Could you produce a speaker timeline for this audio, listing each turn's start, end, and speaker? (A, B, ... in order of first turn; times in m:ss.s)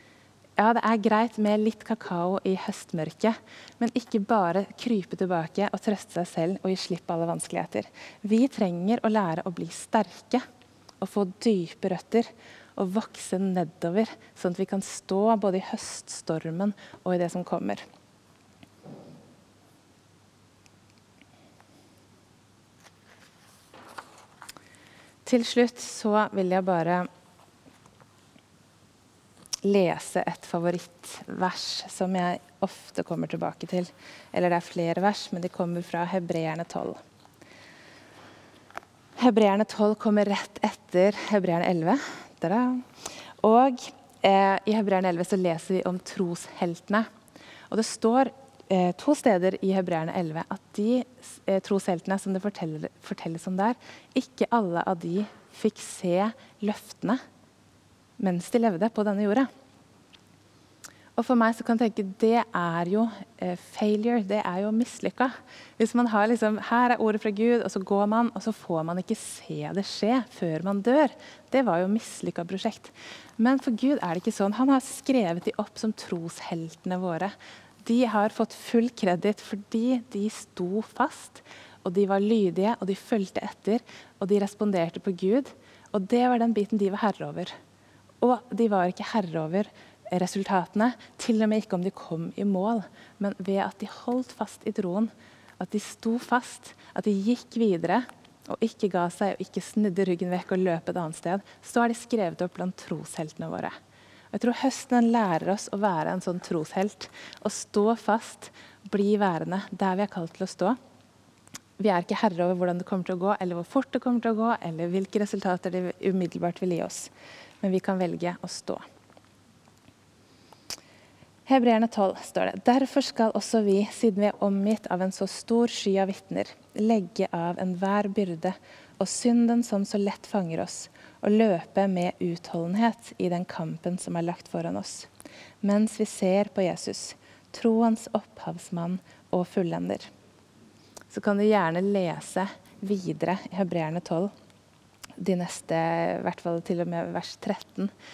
0:00.6-0:10.4 A
0:11.0-0:17.8 A
0:25.2-0:27.1 A
0:29.6-0:37.0 A
0:39.2-0:42.9 A
0:43.4-0:47.1 A
0:47.7-0:57.2 A
0:58.2-0:59.5 A
1:01.2-1:17.3 A
1:17.8-1:27.5 A
1:28.2-1:43.7 A
1:44.3-1:50.8 A
1:51.8-1:57.1 A
1:57.6-1:58.8 A
2:01.5-2:15.1 A
2:15.6-2:20.1 A
2:21.1-2:24.3 A
2:25.2-2:27.9 A